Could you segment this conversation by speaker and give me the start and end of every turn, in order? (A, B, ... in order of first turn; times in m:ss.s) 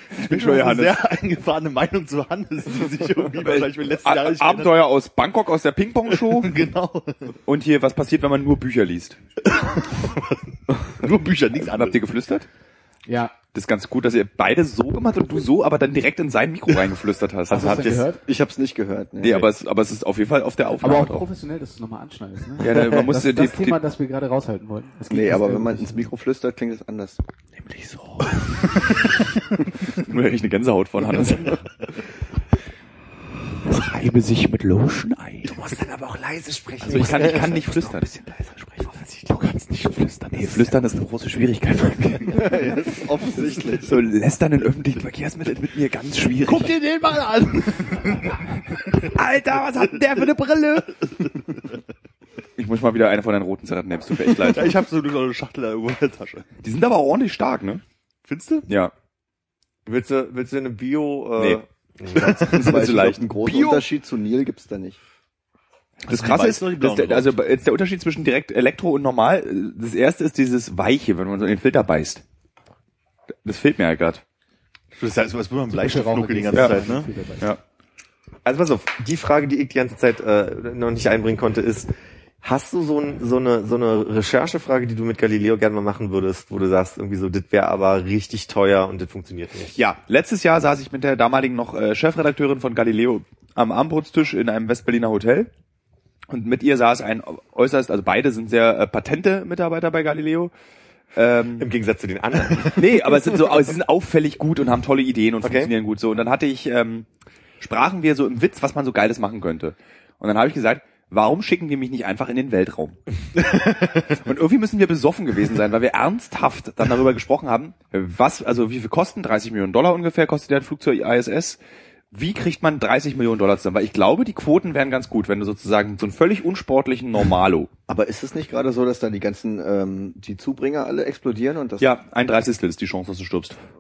0:00.2-0:01.0 A
0:00.2-0:04.9 B
0:03.4-0:06.6 A
0:06.1-0:07.3 B
0:07.5-0:09.2 A
0:09.5-0:12.0 B
0:11.6-0:12.5 A
0:13.1-0:13.3 C
0:13.5-0:18.0 A
0:17.5-0:18.2 C
0:17.8-0:19.5 D
0:19.2-0:21.2 A
0:20.8-0:26.1 C
0:22.6-0:23.8 A
0:25.1-0:27.2 D
0:27.7-0:28.3 A
0:29.8-0:31.7 A
0:33.6-0:35.6 A
0:35.5-0:38.0 E
0:36.8-0:42.9 A
0:42.3-0:44.1 D
0:43.5-0:46.9 A
0:46.4-0:48.4 B
0:48.7-0:51.0 A
0:52.6-0:54.8 A
0:54.3-0:56.5 B
0:56.6-0:57.8 A
0:58.2-0:58.7 B
0:58.7-0:58.9 A
0:59.9-1:02.4 E
1:02.2-1:05.0 D
1:02.2-1:03.9 A
1:06.1-1:07.3 B
1:06.1-1:12.2 A
1:13.4-1:14.2 A
1:15.0-1:17.1 B
1:15.7-1:17.5 C
1:16.6-1:16.8 A
1:18.4-1:21.9 E
1:22.4-1:29.8 E
1:29.8-1:35.5 A
1:36.3-1:40.5 A
1:41.2-1:41.7 A
1:41.6-1:43.4 E
1:42.8-1:47.1 A
1:45.4-1:45.7 E
1:47.6-2:01.6 A
2:02.1-2:07.7 A
2:07.9-2:12.0 D
2:11.8-2:13.6 A